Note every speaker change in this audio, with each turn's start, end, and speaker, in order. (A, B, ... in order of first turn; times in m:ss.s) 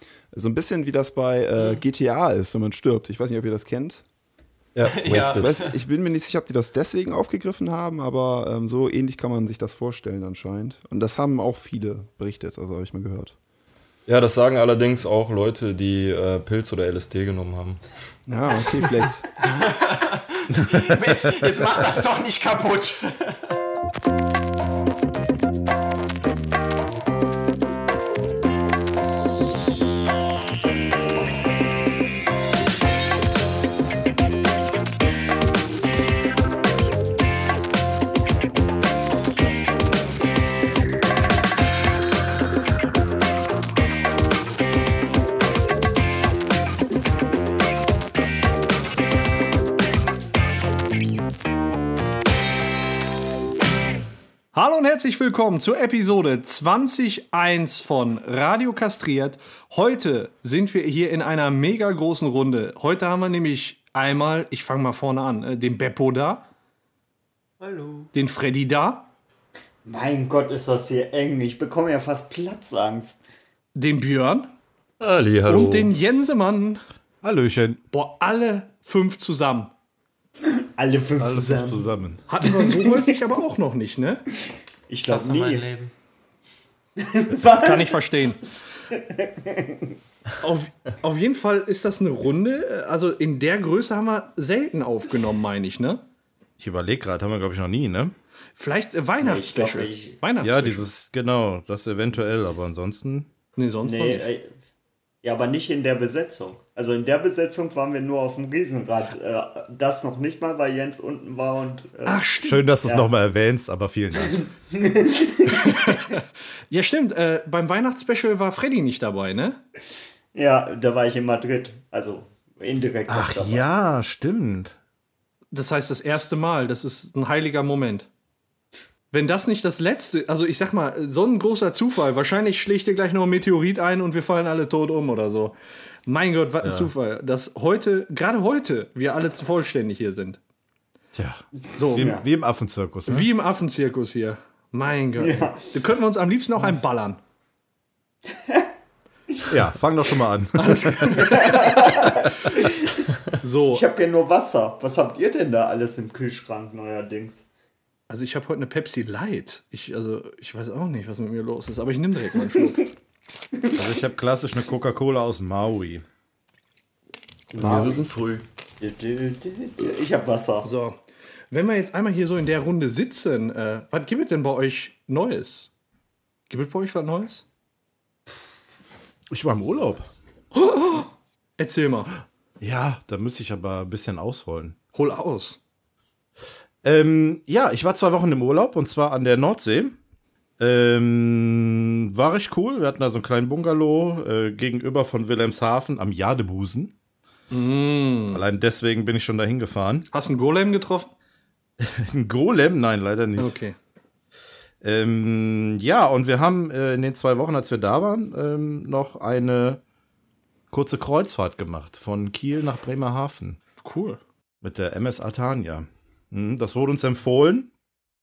0:00.3-0:04.0 A
0:01.6-0:01.8 B
0:04.7-0:05.5 C
0:04.8-0:05.8 B
0:04.9-0:13.3 A
0:14.0-0:17.8 C
0:18.3-0:19.2 A
0:19.4-0:23.5 B
0:54.5-1:06.4 D
1:07.6-1:08.1 B
1:08.1-1:09.1 D
1:09.8-1:13.2 E
1:13.8-1:14.5 D
1:15.0-1:15.9 C
1:15.5-1:16.8 D
1:17.2-1:17.8 F
1:17.9-1:19.7 D
1:20.4-1:21.9 E
1:21.2-1:22.2 F
1:22.3-1:24.2 D
1:22.4-1:23.2 E
1:24.9-1:25.7 E
1:25.1-1:25.9 B
1:27.0-1:30.0 E
1:27.5-1:28.4 D
1:30.4-1:36.0 D
1:36.6-1:38.1 F
1:38.6-1:40.8 D
1:39.2-1:40.2 E
1:40.4-1:43.3 F
1:43.6-1:44.3 D
1:43.8-1:44.5 E
1:45.2-1:52.3 E
1:52.0-1:52.6 D
1:52.4-1:54.4 F
1:52.8-1:53.1 E
1:54.4-1:56.0 E
1:55.5-1:59.6 D
2:00.3-2:03.6 E
2:03.1-2:04.7 F
2:05.5-2:08.1 D
2:09.1-2:15.5 D
2:16.0-2:20.4 D
2:16.6-2:16.9 F
2:21.1-2:23.3 F
2:21.8-2:22.1 D
2:22.0-2:22.2 E
2:23.1-2:27.2 D
2:25.2-2:25.7 E
2:28.3-2:28.7 E
2:29.5-2:31.2 F
2:30.6-2:31.8 D
2:31.1-2:33.1 E
2:32.2-2:32.5 F
2:33.4-2:33.8 D
2:33.7-2:37.4 E
2:38.1-2:42.8 D
2:43.6-2:43.9 E
2:43.7-2:46.0 F
2:47.5-2:48.1 E
2:47.5-2:48.4 C
2:48.8-2:50.7 E
2:50.6-2:51.0 D
2:51.5-2:55.7 D
2:56.5-2:57.4 D
2:59.3-3:00.1 F
3:00.5-3:02.1 D
3:02.6-3:04.8 F
3:04.9-3:05.6 D
3:06.8-3:10.0 F
3:10.6-3:16.9 F
3:17.5-3:18.4 D
3:18.3-3:20.1 F
3:20.1-3:21.1 D
3:21.8-3:23.5 F
3:23.4-3:23.8 D
3:24.8-3:29.8 F
3:30.7-3:33.6 F
3:33.8-3:34.2 D
3:34.6-3:37.7 F